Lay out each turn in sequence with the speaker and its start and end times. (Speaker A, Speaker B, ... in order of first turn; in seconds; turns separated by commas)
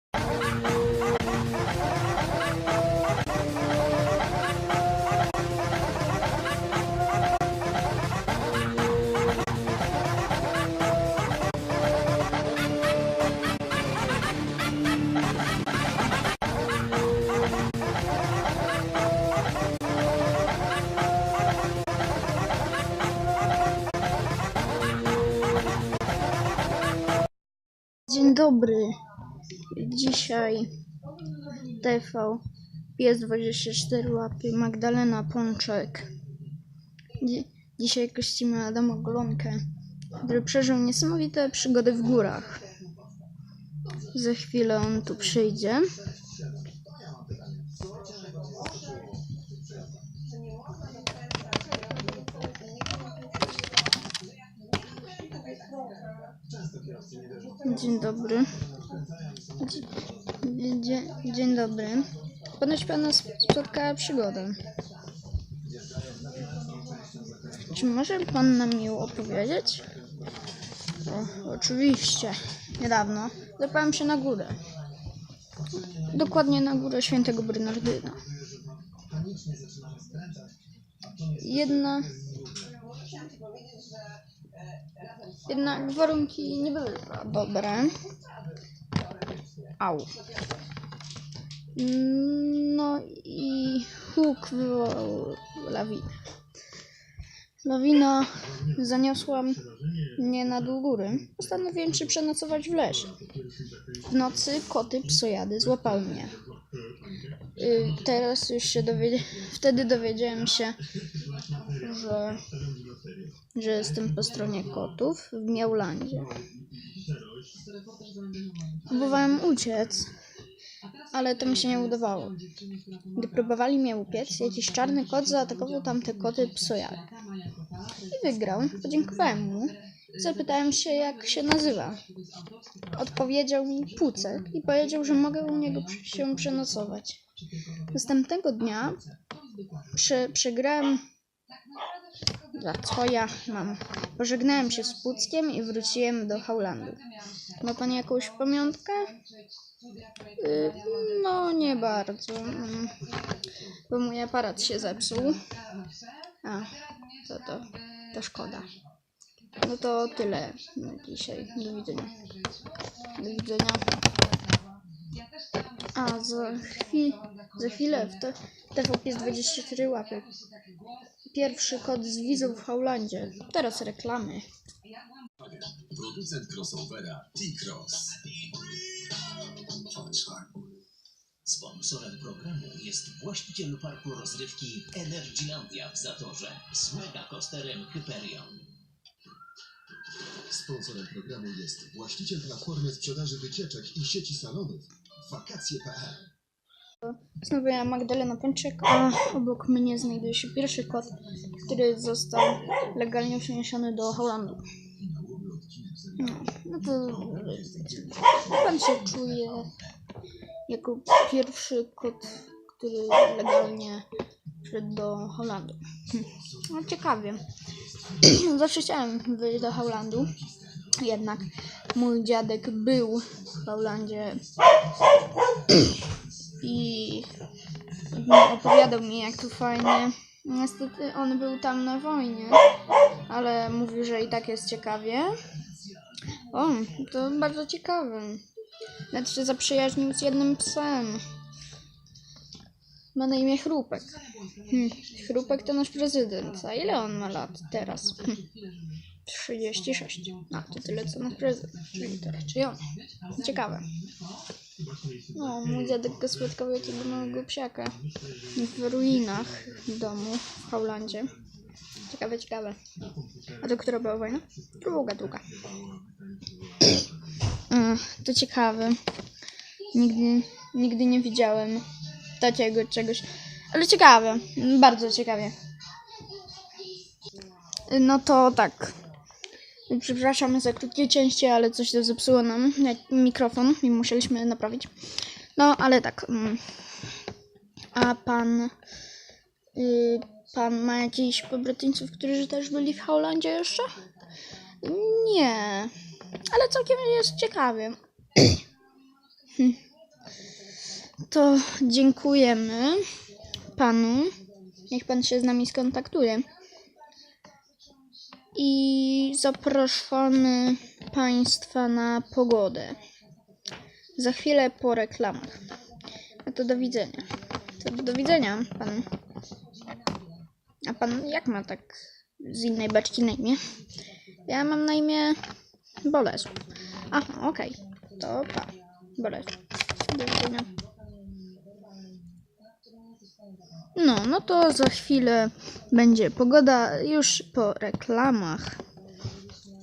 Speaker A: 28.1-29.0, Speaker A: 29.6-30.7, Speaker A: 31.7-32.4, Speaker A: 33.0-36.1, Speaker A: 37.2-39.6, Speaker A: 40.1-42.7, Speaker A: 44.0-46.0, Speaker B: 46.6-49.5, Speaker B: 56.4-57.6, Speaker A: 57.6-58.6, Speaker A: 59.6-64.6, Speaker B: 65.7-67.6, Speaker A: 67.5-69.9, Speaker A: 71.0-74.6, Speaker A: 76.1-78.2, Speaker B: 79.0-80.5, Speaker A: 81.3-82.1, Speaker B: 82.3-82.6, Speaker A: 85.5-88.0, Speaker A: 89.8-90.2, Speaker A: 91.7-96.1, Speaker A: 97.6-103.1, Speaker A: 104.0-106.4, Speaker A: 107.5-110.8, Speaker A: 111.7-112.4, Speaker A: 113.5-116.4, Speaker A: 118.8-120.1, Speaker A: 121.1-122.4, Speaker A: 123.1-127.0, Speaker A: 128.1-132.0, Speaker A: 132.9-137.2, Speaker A: 137.9-139.0, Speaker A: 139.9-141.0, Speaker A: 142.5-147.0, Speaker A: 147.6-149.2, Speaker A: 150.4-153.1, Speaker A: 153.9-155.4, Speaker A: 156.4-158.7, Speaker A: 159.6-162.2, Speaker A: 163.2-163.9, Speaker A: 165.9-170.3, Speaker A: 171.2-174.5, Speaker B: 175.4-178.7, Speaker B: 179.8-180.7, Speaker C: 181.4-188.7, Speaker B: 190.2-196.2, Speaker A: 197.0-204.7, Speaker B: 205.0-206.2, Speaker A: 206.2-209.7, Speaker B: 208.0-208.5, Speaker A: 210.7-214.0, Speaker A: 214.6-217.5, Speaker A: 218.1-220.3, Speaker A: 220.9-224.4, Speaker A: 226.6-227.3, Speaker A: 228.0-232.6, Speaker A: 233.2-235.3, Speaker A: 236.5-238.4, Speaker A: 239.1-241.2, Speaker A: 243.1-248.5, Speaker A: 249.2-253.9, Speaker A: 255.3-258.0, Speaker A: 258.5-261.3, Speaker A: 262.1-262.8, Speaker A: 263.6-265.5, Speaker A: 267.5-269.0, Speaker A: 269.9-271.9, Speaker A: 272.4-275.6, Speaker A: 277.8-278.9, Speaker A: 279.9-284.9, Speaker A: 285.6-286.6, Speaker A: 287.9-288.7, Speaker A: 289.7-294.0, Speaker A: 294.8-295.9, Speaker A: 296.4-298.6, Speaker A: 301.3-303.0, Speaker A: 303.7-304.4, Speaker A: 304.9-306.5, Speaker A: 308.5-313.0, Speaker A: 314.1-315.6, Speaker A: 316.4-319.1, Speaker A: 320.9-323.6, Speaker A: 324.4-325.4, Speaker A: 326.0-326.6, Speaker A: 327.1-330.7, Speaker A: 333.9-338.8